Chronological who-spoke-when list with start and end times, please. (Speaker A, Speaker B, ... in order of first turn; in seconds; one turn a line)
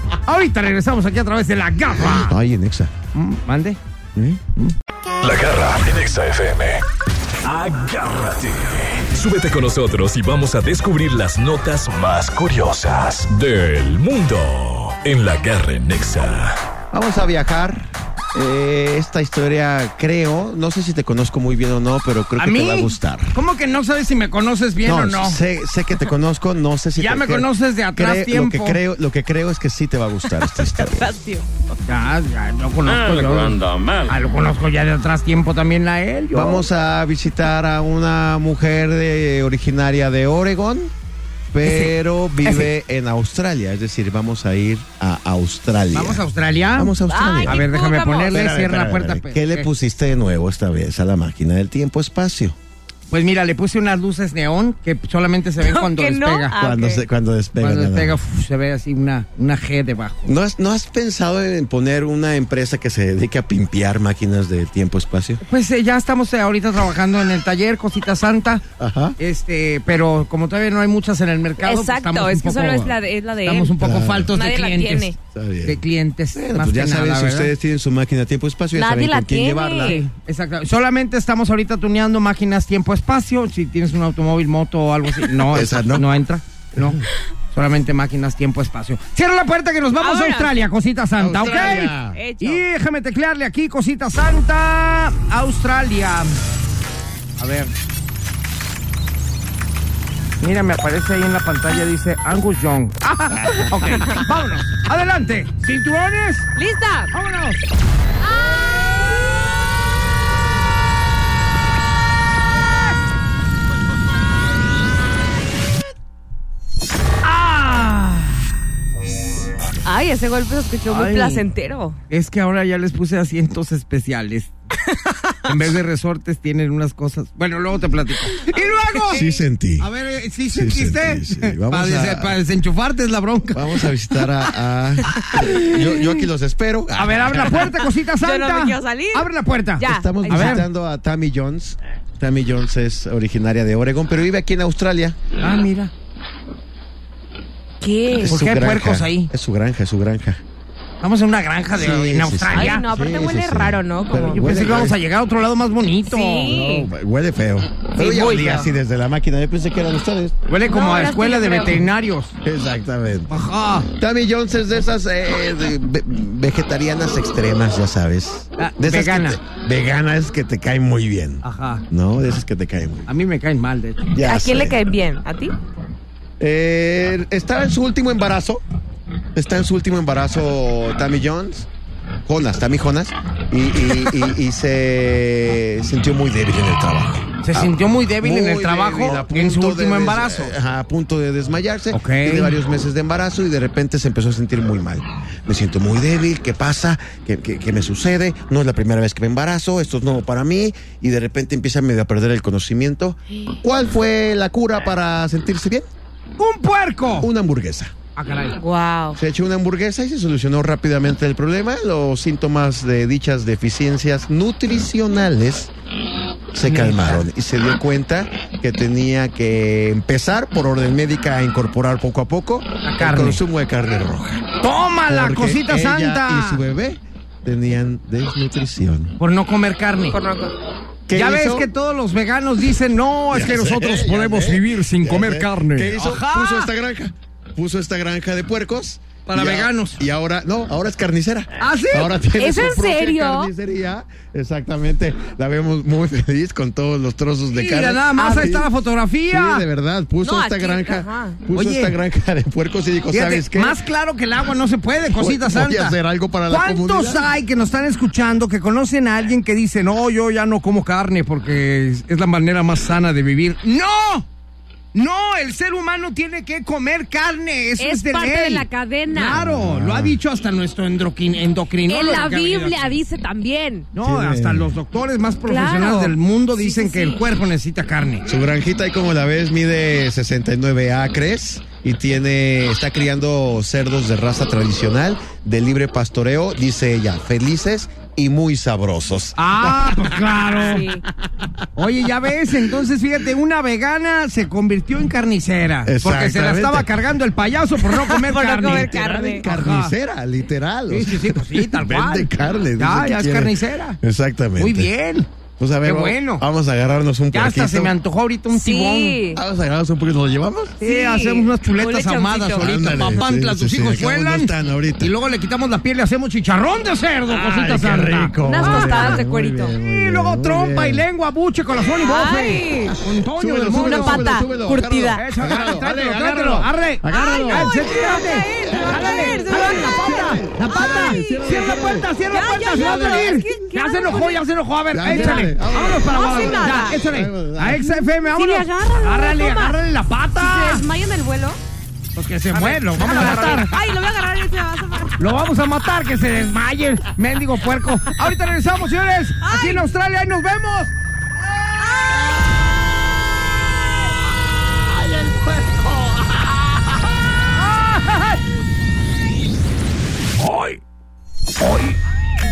Speaker A: 0.2-2.4
Speaker B: 2.0-2.9
Speaker A: 3.1-3.8
Speaker B: 4.1-4.4
Speaker C: 5.2-6.8
Speaker C: 7.4-16.6
Speaker B: 16.9-23.4
Speaker A: 22.4-25.4
Speaker B: 24.8-31.2
Speaker A: 27.0-28.8
Speaker D: 30.6-31.7
Speaker A: 31.9-36.6
Speaker B: 36.3-40.9
Speaker B: 41.5-47.7
Speaker A: 41.6-41.9
Speaker A: 45.9-49.7
Speaker D: 47.1-48.4
Speaker B: 48.3-52.6
Speaker A: 53.1-56.5
Speaker D: 55.6-57.0
Speaker B: 56.5-58.2
Speaker A: 57.6-60.3
Speaker B: 60.2-65.4
Speaker A: 65.4-68.6
Speaker B: 68.8-69.2
Speaker A: 69.2-77.5
Speaker D: 71.6-73.8
Speaker B: 73.8-74.3
Speaker D: 74.3-75.2
Speaker B: 75.3-75.8
Speaker B: 76.3-80.0
Speaker D: 78.7-80.0
Speaker A: 79.8-96.4
Speaker B: 85.5-86.1
Speaker D: 90.0-90.5
Speaker B: 91.2-92.2
Speaker D: 91.4-92.6
Speaker A: 97.4-97.7
Speaker A: 100.4-106.5
Speaker D: 106.5-107.1
Speaker A: 107.1-107.6
Speaker D: 108.2-109.0
Speaker A: 117.2-118.5
Speaker D: 119.8-122.0
Speaker A: 120.9-121.4
Speaker A: 122.1-124.5
Speaker A: 125.4-129.3
Speaker D: 128.5-129.4
Speaker B: 129.1-129.9
Speaker A: 129.8-133.9
Speaker B: 130.5-132.4
Speaker B: 133.5-137.7
Speaker A: 135.2-136.1
Speaker A: 136.9-140.6
Speaker D: 138.2-140.6
Speaker B: 139.8-145.2
Speaker A: 145.4-145.9
Speaker D: 147.8-148.4
Speaker B: 148.1-150.4
Speaker A: 148.2-149.3
Speaker A: 151.0-152.8
Speaker B: 151.7-155.0
Speaker D: 152.5-154.5
Speaker A: 154.3-156.5
Speaker D: 156.1-156.9
Speaker B: 156.4-160.3
Speaker A: 158.0-158.7
Speaker A: 160.5-162.3
Speaker D: 160.7-161.8
Speaker B: 162.4-163.3
Speaker A: 163.3-163.9
Speaker B: 163.9-173.1
Speaker A: 168.6-169.4
Speaker A: 171.4-171.8
Speaker A: 173.1-174.1
Speaker B: 174.1-174.8
Speaker D: 174.2-175.5
Speaker B: 176.4-178.6
Speaker B: 179.3-181.7
Speaker B: 182.2-205.9
Speaker A: 187.4-190.5
Speaker A: 191.9-192.5
Speaker A: 206.4-207.3
Speaker B: 207.2-207.9
Speaker A: 208.2-208.6
Speaker D: 208.6-209.2
Speaker B: 209.1-215.7
Speaker B: 216.5-224.5
Speaker A: 216.6-217.2
Speaker A: 222.8-223.4
Speaker A: 224.6-226.6
Speaker B: 225.1-229.2
Speaker A: 229.2-230.2
Speaker D: 230.1-230.5
Speaker B: 231.1-231.7
Speaker A: 231.1-236.7
Speaker B: 233.3-248.7
Speaker A: 239.2-240.0
Speaker A: 241.6-242.1
Speaker D: 242.4-243.5
Speaker A: 247.5-249.6
Speaker D: 248.2-248.5
Speaker B: 249.3-253.8
Speaker D: 250.2-251.4
Speaker A: 251.5-251.9
Speaker A: 253.1-256.0
Speaker B: 255.1-257.3
Speaker A: 256.5-264.3
Speaker A: 264.9-273.0
Speaker D: 267.8-269.4
Speaker B: 269.3-270.2
Speaker D: 271.9-273.9
Speaker A: 273.9-278.3
Speaker B: 274.0-274.7
Speaker D: 275.4-277.2
Speaker B: 278.2-290.6
Speaker A: 289.4-290.9
Speaker D: 290.6-291.0
Speaker A: 291.7-299.9
Speaker B: 292.4-292.8
Speaker B: 295.8-297.0
Speaker D: 298.0-299.4
Speaker B: 298.5-304.9
Speaker A: 300.9-304.0
Speaker A: 304.6-305.3
Speaker B: 305.6-307.9
Speaker A: 305.8-306.4
Speaker A: 307.3-309.2
Speaker D: 308.5-309.4
Speaker B: 309.3-310.8
Speaker A: 310.8-324.4
Speaker D: 310.8-312.7
Speaker B: 312.6-315.1
Speaker B: 317.3-321.0
Speaker D: 318.4-319.7
Speaker D: 322.0-323.0
Speaker B: 323.4-327.9
Speaker D: 323.7-325.2
Speaker A: 325.1-340.8
Speaker D: 327.1-334.4
Speaker B: 328.6-332.1
Speaker B: 332.6-333.4
Speaker B: 334.9-337.9
Speaker D: 335.0-337.0
Speaker D: 337.8-339.8
Speaker D: 340.4-341.6
Speaker A: 342.1-343.7
Speaker D: 342.5-345.2
Speaker A: 345.2-350.9
Speaker D: 349.4-349.9
Speaker D: 351.8-352.4
Speaker A: 357.5-358.4
Speaker A: 360.4-360.8
Speaker A: 361.6-362.0